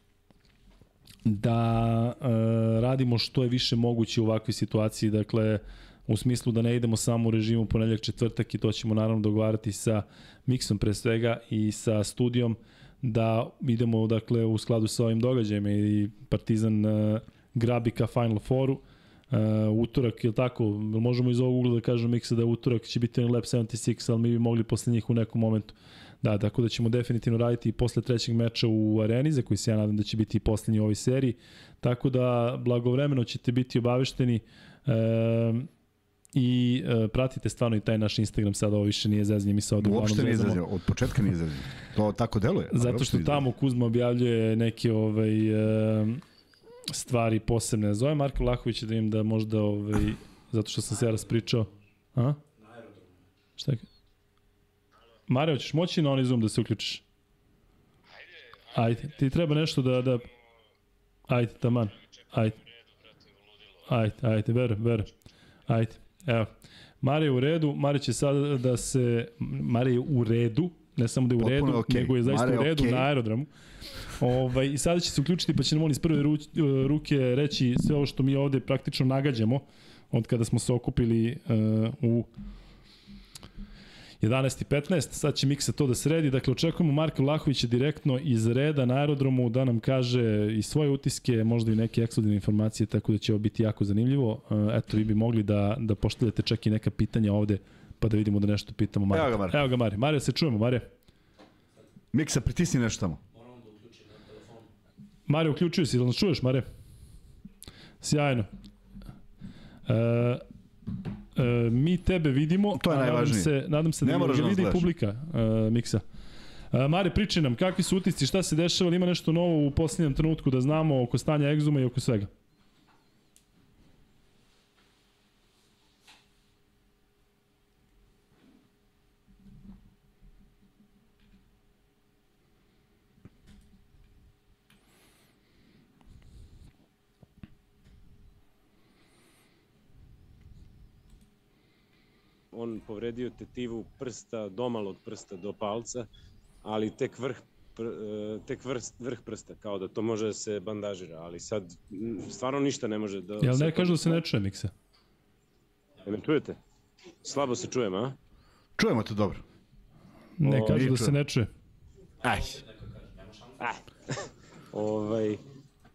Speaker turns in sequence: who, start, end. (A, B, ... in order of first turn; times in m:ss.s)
0:01.2-0:35.7 A
0:36.3-0:40.6 A
0:39.8-0:43.4 B
0:42.7-0:46.2 A
0:46.9-0:52.4 A
0:53.6-0:53.8 A
0:55.3-0:57.0 A
0:58.7-1:00.3 A
1:01.3-1:02.6 A
1:03.9-1:05.1 A
1:05.7-1:06.5 A
1:07.0-1:13.5 A
1:11.4-1:13.1 B
1:14.2-1:22.3 A
1:24.2-1:40.8 A
1:39.1-1:39.6 B
1:42.1-1:43.2 B
1:45.3-1:46.6 A
1:48.0-1:48.5 A
1:49.8-1:50.4 A
1:51.3-1:56.0 A
1:52.7-1:54.9 B
1:56.7-2:02.3 A
2:22.5-2:26.1 C
2:26.6-2:34.2 C
2:33.4-2:34.7 A
2:36.0-2:36.6 C
2:37.2-2:38.2 C
2:38.8-2:39.4 B
2:40.4-2:41.5 A
2:40.4-2:40.9 C
2:40.7-2:41.2 B
2:42.2-2:42.6 B
2:43.4-2:45.4 C